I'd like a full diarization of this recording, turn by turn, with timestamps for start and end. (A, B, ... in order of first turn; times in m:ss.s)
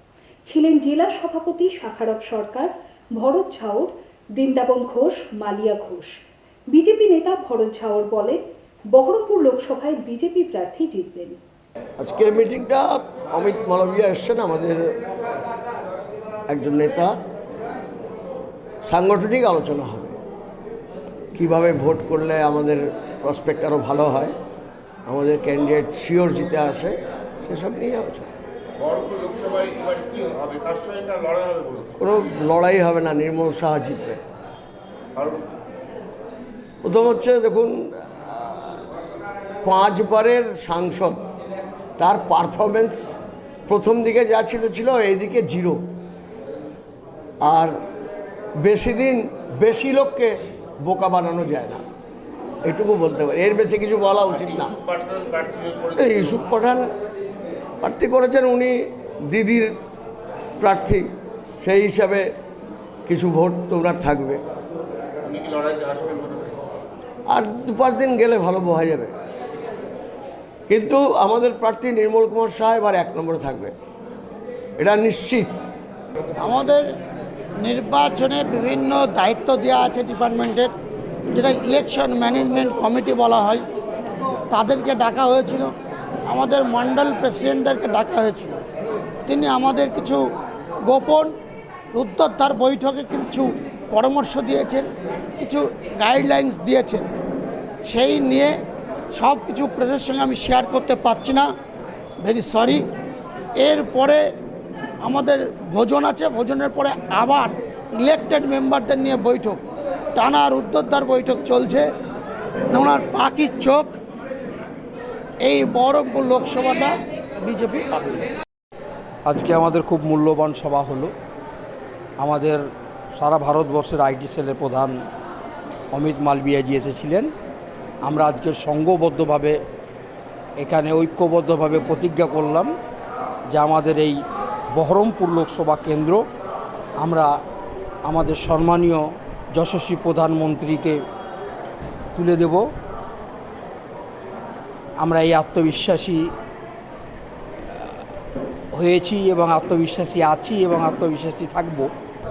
0:00.5-0:06.1 A
0:06.7-0:08.4 A
0:08.9-0:11.4 A
0:12.0-0:14.9 B
0:16.5-0:17.1 B
0:18.9-0:20.1 B
0:21.4-0:24.3 B
0:25.1-0:28.3 B
0:28.8-0:31.9 C
0:32.0-0:34.2 B
0:36.8-0:38.8 B
0:39.6-0:41.2 B
0:42.0-0:43.1 B
0:43.7-0:45.8 B
0:47.4-0:47.7 B
0:48.6-0:51.8 B
0:52.6-0:54.8 B
0:54.4-0:56.4 C
0:56.0-0:56.9 B
0:57.8-0:58.8 B
0:59.3-0:59.8 B
1:00.6-1:01.1 B
1:01.6-1:02.2 B
1:03.1-1:04.4 B
1:05.3-1:06.5 C
1:07.3-1:09.1 B
1:10.7-1:13.7 B
1:14.8-1:15.5 B
1:16.4-1:16.8 D
1:17.6-1:20.7 D
1:21.3-1:23.6 D
1:24.5-1:25.7 D
1:26.3-1:28.6 D
1:29.2-1:30.2 D
1:30.8-1:31.3 D
1:31.9-1:37.0 D
1:37.8-1:38.5 D
1:39.1-1:41.5 D
1:42.2-1:42.8 D
1:43.6-1:44.2 D
1:45.0-1:49.6 D
1:50.2-1:51.8 D
1:52.7-1:53.9 D
1:55.4-1:58.2 D
1:59.2-2:01.1 E
2:02.2-2:02.6 E
2:03.2-2:04.9 E
2:05.9-2:07.3 E
2:08.0-2:09.6 E
2:10.6-2:12.7 E
2:13.5-2:14.2 E
2:14.7-2:16.2 E
2:17.0-2:17.3 E
2:18.0-2:21.0 E
2:22.1-2:22.7 E
2:25.0-2:26.3 E
2:27.7-2:28.0 E
2:28.7-2:31.9 E